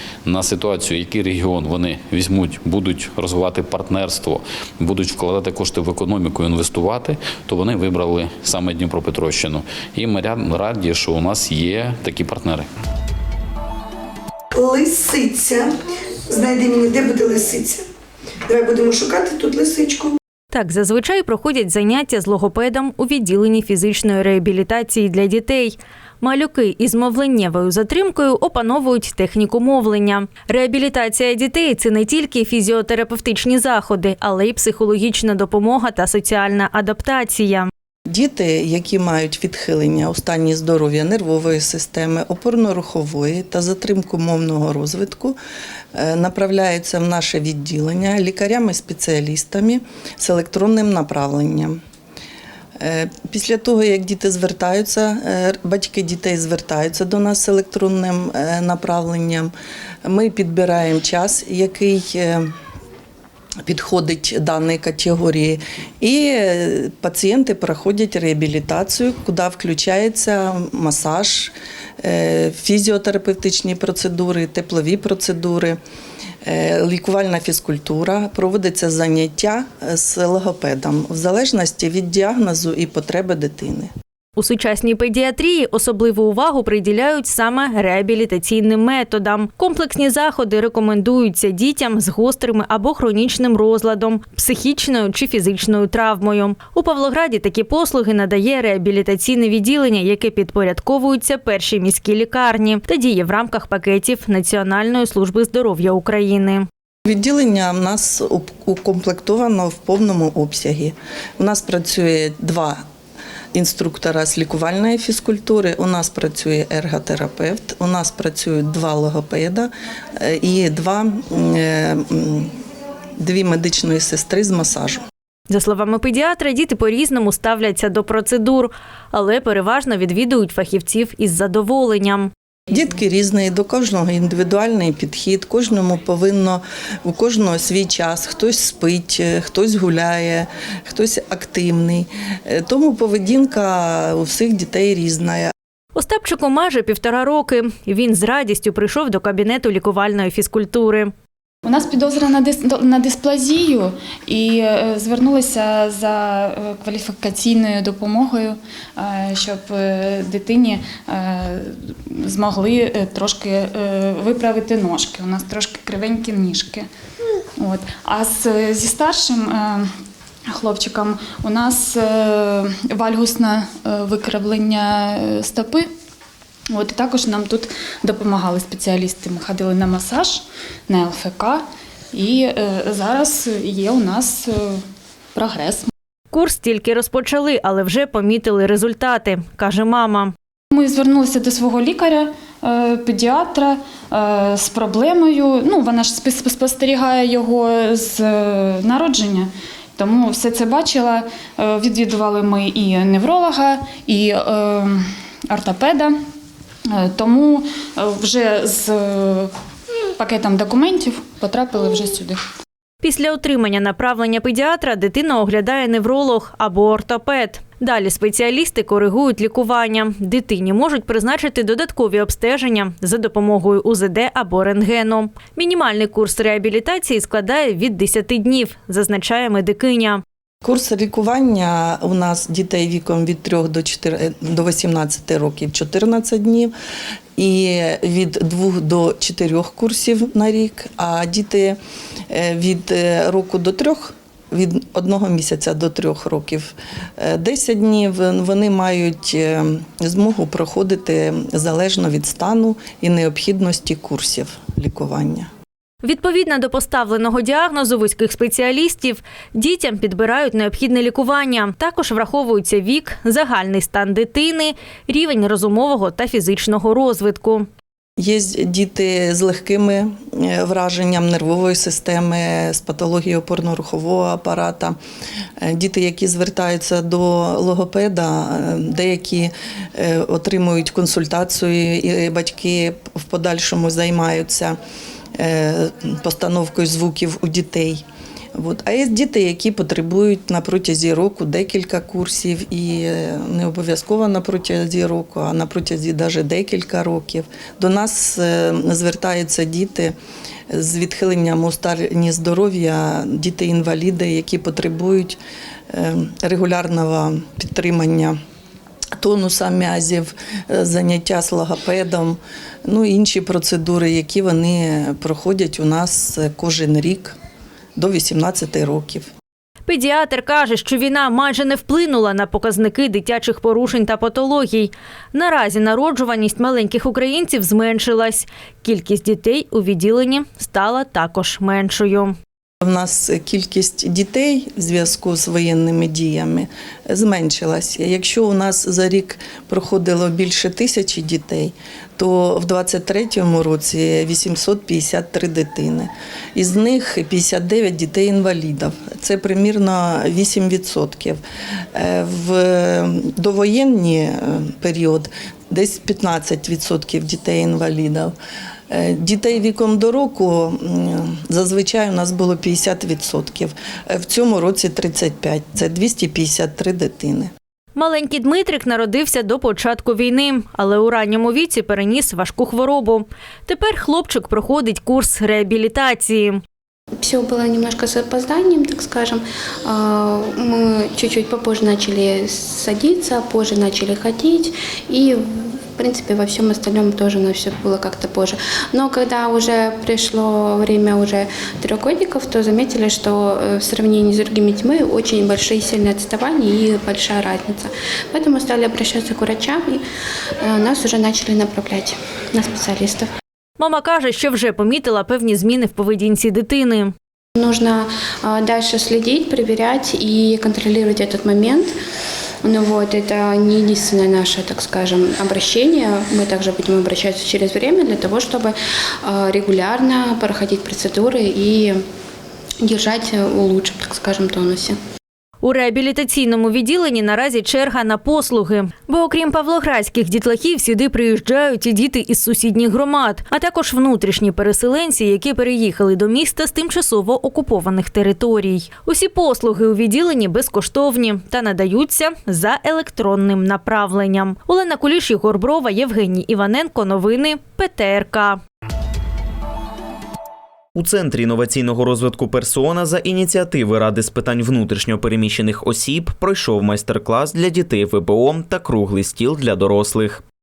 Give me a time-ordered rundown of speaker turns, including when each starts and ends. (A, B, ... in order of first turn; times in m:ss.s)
0:00.2-0:12.7 A
0:14.5-0:15.7 B
0:16.3-0:17.8 B
0:18.5-0:20.2 B
0:20.5-0:37.7 C
0:38.1-0:45.4 D
0:45.9-0:51.8 D
0:52.8-0:59.5 D
1:00.0-1:02.5 D
1:03.6-1:15.8 D
1:16.4-1:23.9 D
1:24.4-1:46.7 C
1:47.1-1:52.8 D
1:53.5-2:02.5 D
2:03.2-2:05.0 D
2:05.5-2:12.3 C
2:12.7-2:25.5 D
2:26.0-2:31.1 C
2:31.6-2:46.9 E
2:47.6-2:49.9 E
2:50.5-2:55.9 E
2:56.7-3:04.8 E
3:05.4-3:05.9 E
3:06.3-3:10.3 C
3:10.7-3:26.1 E
3:27.0-3:29.5 E
3:30.2-3:32.4 E
3:33.0-3:50.2 C
3:50.6-3:56.7 D
3:57.4-4:15.5 D
4:16.0-4:27.7 C
4:28.2-4:35.0 D
4:35.6-4:44.8 D
4:45.4-4:48.0 D
4:48.6-5:00.2 D
5:00.7-5:05.4 D
5:05.9-5:08.4 D
5:09.2-5:17.4 D
5:18.0-5:19.3 D
5:19.9-5:32.4 C
5:32.8-5:51.4 D
5:52.0-5:58.4 D
5:58.9-6:07.5 D
6:08.0-6:16.6 C
6:17.2-6:19.4 F
6:19.9-6:25.4 F
6:26.0-6:40.0 F
6:40.6-6:43.2 F
6:43.8-6:47.1 C
6:47.6-6:51.8 F
6:52.6-6:58.7 F
6:59.3-7:01.9 F
7:02.9-7:04.9 F
7:05.6-7:28.6 C
7:31.0-7:40.4 G